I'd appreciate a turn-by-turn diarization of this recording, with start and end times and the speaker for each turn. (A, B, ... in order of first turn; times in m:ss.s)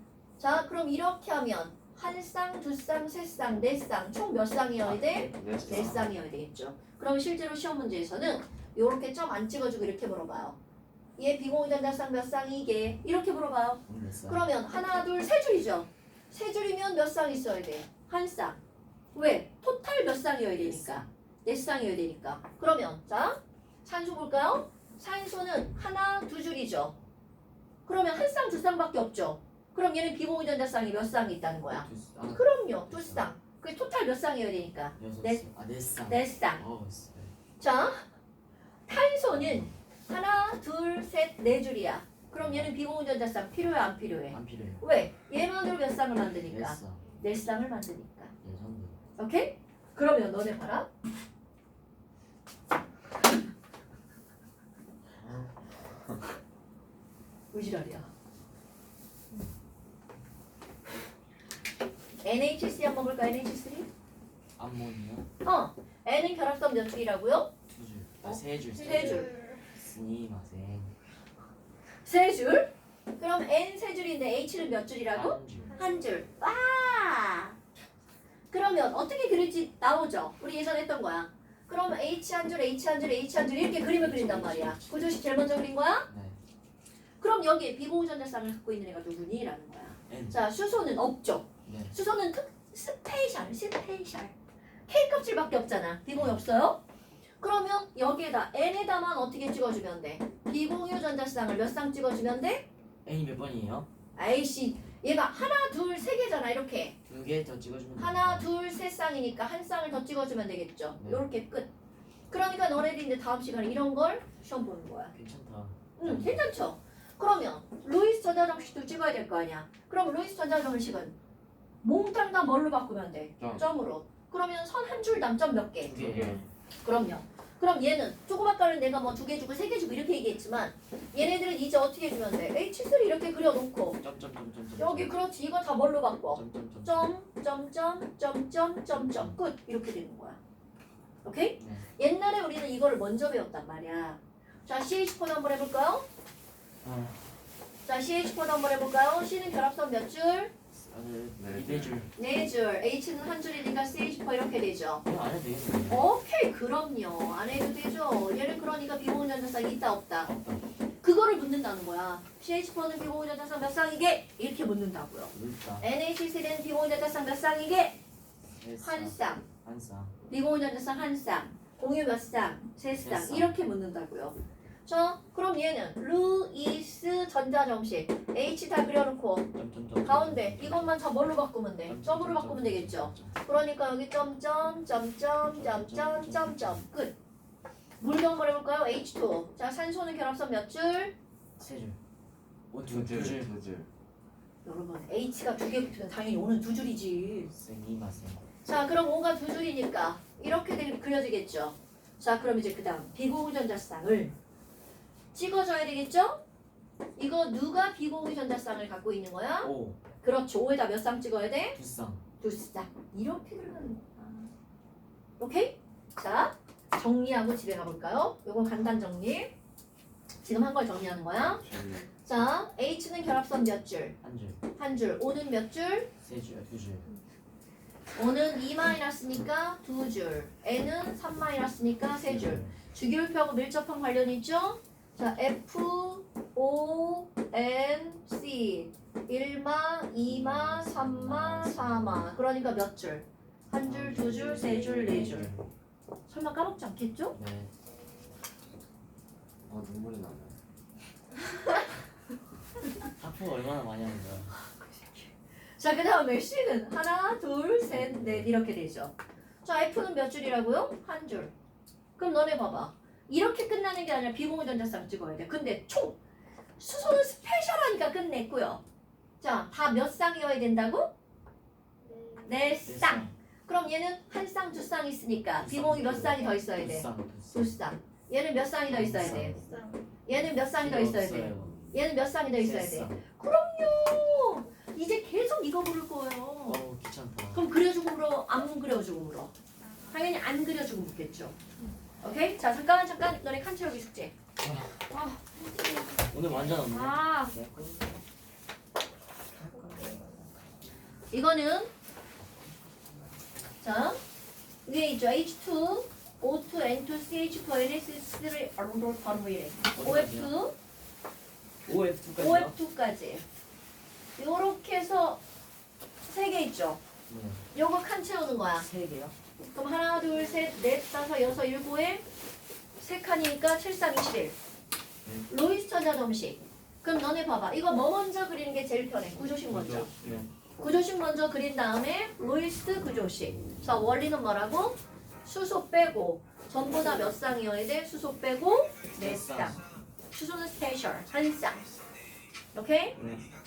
0:00.4-0:10.6 A
0:04.8-0:06.1 B
0:05.4-0:06.0 C
0:11.2-0:18.6 A
0:13.9-0:14.5 B
0:19.1-0:27.0 A
0:20.6-0:21.1 B
0:27.9-0:35.4 A
0:31.7-0:33.3 B
0:35.0-0:37.3 B
0:36.1-0:36.6 A
0:37.6-0:38.0 A
0:38.9-0:48.3 A
0:39.3-0:39.8 B
0:42.4-0:42.7 B
0:44.3-0:44.9 B
0:46.5-0:47.1 B
0:48.4-0:49.0 B
0:49.2-0:50.9 A
0:55.2-0:56.2 C
0:57.5-0:58.1 A
1:02.2-1:03.9 A
1:04.6-1:05.3 B
1:05.4-1:07.5 A
1:07.7-1:10.9 B
1:08.8-1:09.7 D
1:08.8-1:09.4 A
1:12.0-1:17.6 A
1:15.1-1:15.8 B
1:15.7-1:16.0 D
1:18.5-1:26.1 A
1:23.9-1:25.0 B
1:26.1-1:26.4 B
1:27.2-1:34.3 A
1:30.1-1:30.4 B
1:31.7-1:32.0 B
1:34.9-1:36.8 A
1:36.2-1:36.4 B
1:37.4-1:42.7 A
1:43.0-1:43.9 B
1:44.2-1:47.0 A
1:47.1-1:48.5 B
1:48.0-1:51.7 A
1:51.0-1:51.2 B
1:52.3-1:55.1 A
1:55.1-1:56.4 B
1:56.0-2:01.2 A
2:01.8-2:05.9 A
2:03.4-2:03.7 C
2:05.9-2:06.5 B
2:05.9-2:06.5 C
2:06.8-2:14.0 A
2:14.0-2:15.1 B
2:14.8-2:20.4 A
2:16.3-2:17.1 B
2:18.9-2:19.4 B
2:21.2-2:26.1 A
2:21.6-2:21.9 B
2:26.8-2:27.3 B
2:27.8-2:30.5 A
2:30.7-2:32.1 B
2:31.4-2:32.0 C
2:32.2-2:35.0 A
2:35.0-2:36.1 B
2:35.9-2:40.3 A
2:40.2-2:40.6 B
2:41.0-2:48.0 A
2:45.3-2:45.9 B
2:48.6-2:50.2 B
2:48.8-2:49.4 A
2:50.3-2:59.5 A
2:53.0-2:53.6 B
2:59.5-3:01.0 B
3:00.0-3:07.2 A
3:01.9-3:03.4 B
3:05.5-3:06.9 B
3:08.0-3:11.2 A
3:11.6-3:12.0 B
3:12.7-3:13.6 B
3:12.8-3:13.9 C
3:14.6-3:17.5 A
3:17.5-3:18.4 B
3:18.6-3:24.4 A
3:25.3-3:26.4 A
3:27.2-3:29.7 A
3:29.6-3:30.0 B
3:30.2-3:31.8 A
3:31.7-3:32.2 B
3:32.4-3:34.5 A
3:35.4-3:39.5 A
3:40.4-3:41.6 A
3:41.6-3:42.1 C
3:42.2-3:44.2 A
3:44.2-3:44.6 B
3:44.8-3:46.1 A
3:46.2-3:47.1 B
3:48.2-4:05.5 A
3:52.2-3:52.8 B
4:00.3-4:02.3 B
4:03.8-4:05.6 B
4:06.3-4:07.4 A
4:07.3-4:07.7 B
4:09.7-4:10.6 C
4:13.2-4:14.6 B
4:14.6-4:21.5 A
4:17.9-4:18.5 B
4:22.2-4:26.2 A
4:26.8-4:28.8 A
4:29.4-4:31.1 A
4:32.0-4:32.6 D
4:32.4-4:39.6 A
4:32.8-4:33.3 B
4:35.6-4:37.8 B
4:38.9-4:39.6 B
4:39.2-4:40.1 D
4:40.3-4:46.8 A
4:40.8-4:41.8 B
4:42.6-4:43.2 B
4:46.7-4:47.6 B
4:47.5-4:49.5 A
4:50.1-4:51.6 A
4:52.2-4:54.3 A
4:54.6-4:55.0 C
4:55.1-4:57.6 D
4:56.3-4:58.2 B
4:59.5-5:00.2 B
4:59.7-5:00.4 D
5:01.3-5:01.9 A
5:03.8-5:04.2 A
5:04.8-5:10.7 A
5:09.9-5:10.5 B
5:11.9-5:12.8 B
5:12.4-5:13.4 A
5:14.4-5:15.4 A
5:16.2-5:17.0 A
5:17.3-5:17.6 B
5:17.7-5:18.9 A
5:18.8-5:19.3 B
5:19.7-5:22.2 A
5:23.0-5:24.5 A
5:25.5-5:30.1 A
5:29.8-5:30.5 C
5:29.8-5:30.5 B
5:30.8-5:39.8 A
5:39.2-5:39.8 B
5:40.3-5:41.9 A
5:42.7-5:43.2 A
5:43.2-5:43.4 B